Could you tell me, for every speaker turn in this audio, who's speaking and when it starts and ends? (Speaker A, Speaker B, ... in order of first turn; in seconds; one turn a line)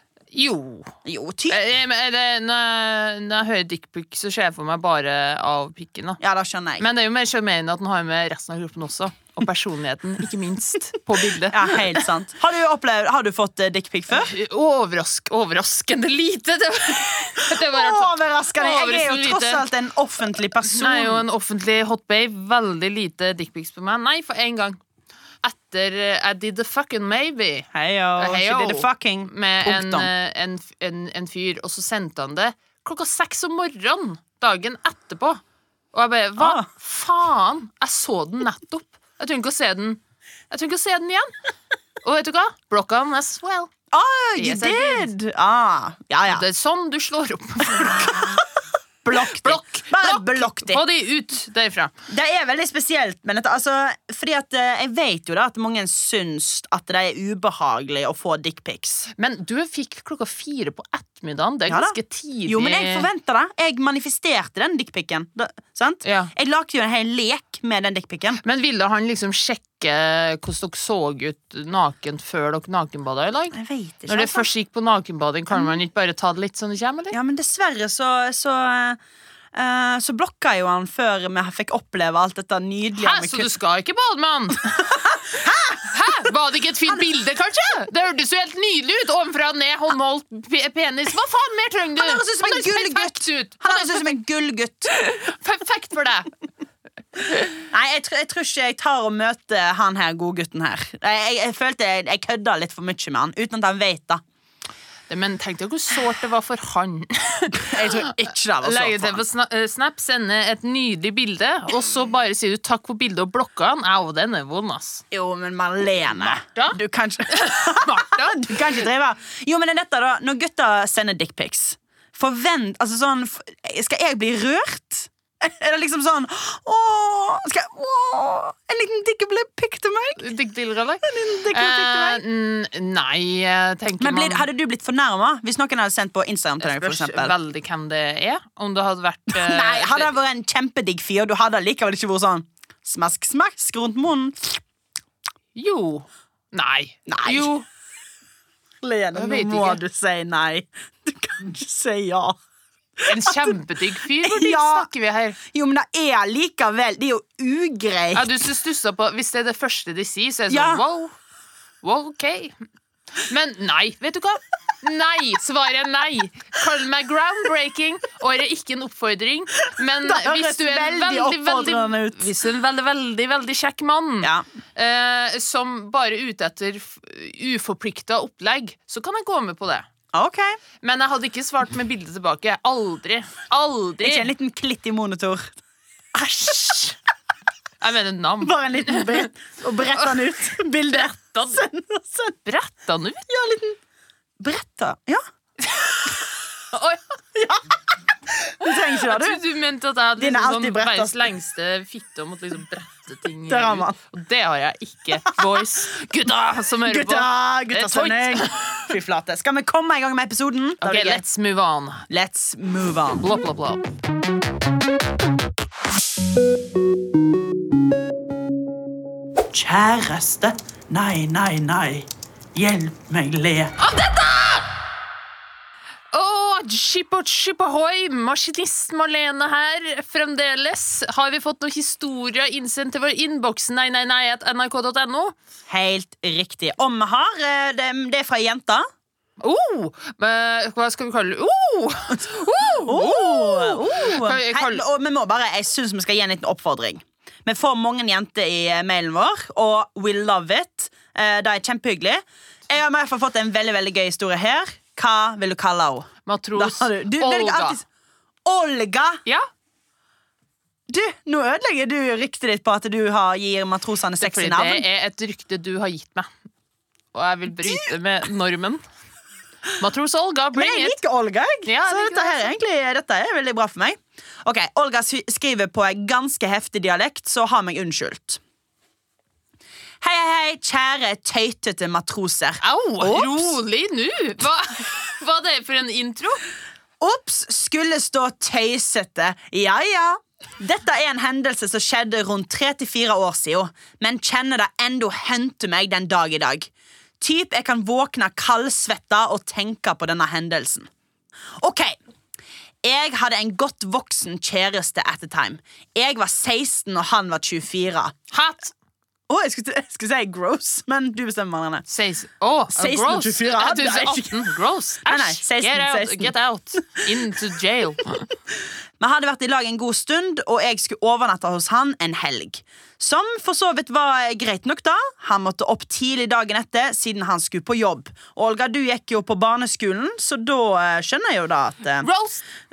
Speaker A: 0.3-0.9
Speaker B: 1.0-1.6
Speaker A: 1.5-6.2
Speaker B: 6.2-6.8
Speaker A: 6.8-12.0
Speaker B: 11.5-14.3
Speaker A: 14.1-19.7
Speaker B: 17.5-21.2
Speaker A: 20.6-24.8
Speaker A: 25.4-35.4
Speaker B: 27.7-30.1
Speaker A: 35.9-41.3
Speaker B: 36.4-36.7
Speaker A: 42.0-43.7
Speaker B: 43.9-46.4
Speaker A: 44.4-45.1
Speaker A: 46.3-48.4
Speaker B: 49.0-50.8
Speaker A: 49.2-51.9
Speaker B: 52.1-59.1
Speaker A: 59.1-63.1
Speaker B: 61.7-68.4
Speaker A: 66.0-66.3
Speaker A: 68.4-77.2
Speaker B: 73.5-74.5
Speaker B: 77.1-79.0
Speaker B: 79.5-83.5
Speaker A: 83.0-85.1
Speaker B: 84.9-85.9
Speaker A: 85.8-94.0
Speaker B: 92.0-94.9
Speaker A: 94.9-96.3
Speaker B: 97.6-104.2
Speaker A: 105.1-115.0
Speaker B: 107.5-109.2
Speaker B: 115.1-130.2
Speaker A: 116.1-118.6
Speaker A: 130.2-134.5
Speaker B: 131.0-132.2
Speaker B: 134.0-137.3
Speaker A: 136.6-140.1
Speaker B: 139.3-144.6
Speaker A: 145.5-147.6
Speaker B: 147.1-147.5
Speaker B: 148.8-152.4
Speaker A: 149.1-149.8
Speaker B: 153.0-153.6
Speaker A: 153.1-155.4
Speaker B: 154.2-154.9
Speaker B: 155.4-158.3
Speaker A: 158.1-161.1
Speaker B: 160.5-160.8
Speaker A: 161.8-162.6
Speaker A: 163.2-179.9
Speaker B: 170.0-172.3
Speaker B: 180.1-180.6
Speaker A: 180.8-184.3
Speaker B: 184.0-185.5
Speaker A: 186.1-187.0
Speaker A: 187.8-189.3
Speaker B: 188.4-192.3
Speaker A: 189.9-190.2
Speaker A: 190.9-191.6
Speaker A: 192.4-193.3
Speaker B: 193.3-193.8
Speaker B: 194.4-195.2
Speaker A: 195.7-196.0
Speaker A: 196.7-197.0
Speaker B: 197.3-197.8
Speaker B: 198.3-199.4
Speaker A: 198.6-208.9
Speaker B: 200.2-201.2
Speaker B: 203.5-203.9
Speaker B: 205.3-205.6
Speaker B: 206.8-211.2
Speaker A: 210.8-212.0
Speaker B: 212.1-213.2
Speaker A: 213.2-213.8
Speaker B: 219.5-223.8
Speaker A: 223.8-224.6
Speaker A: 226.1-235.3
Speaker B: 235.7-238.8
Speaker A: 239.4-244.8
Speaker B: 242.8-257.9
Speaker A: 256.2-257.8
Speaker B: 258.4-259.2
Speaker B: 260.9-264.8
Speaker A: 264.2-266.3
Speaker A: 267.1-268.8
Speaker A: 269.8-271.0
Speaker B: 270.5-278.4
Speaker A: 271.6-272.5
Speaker B: 280.0-283.6
Speaker A: 282.6-286.4
Speaker B: 287.0-300.9
Speaker B: 301.6-301.9
Speaker B: 302.8-308.1
Speaker A: 308.3-308.7
Speaker B: 309.3-311.9
Speaker A: 311.9-318.3
Speaker B: 312.7-314.4
Speaker B: 315.1-316.3
Speaker B: 319.0-332.1
Speaker A: 332.0-332.4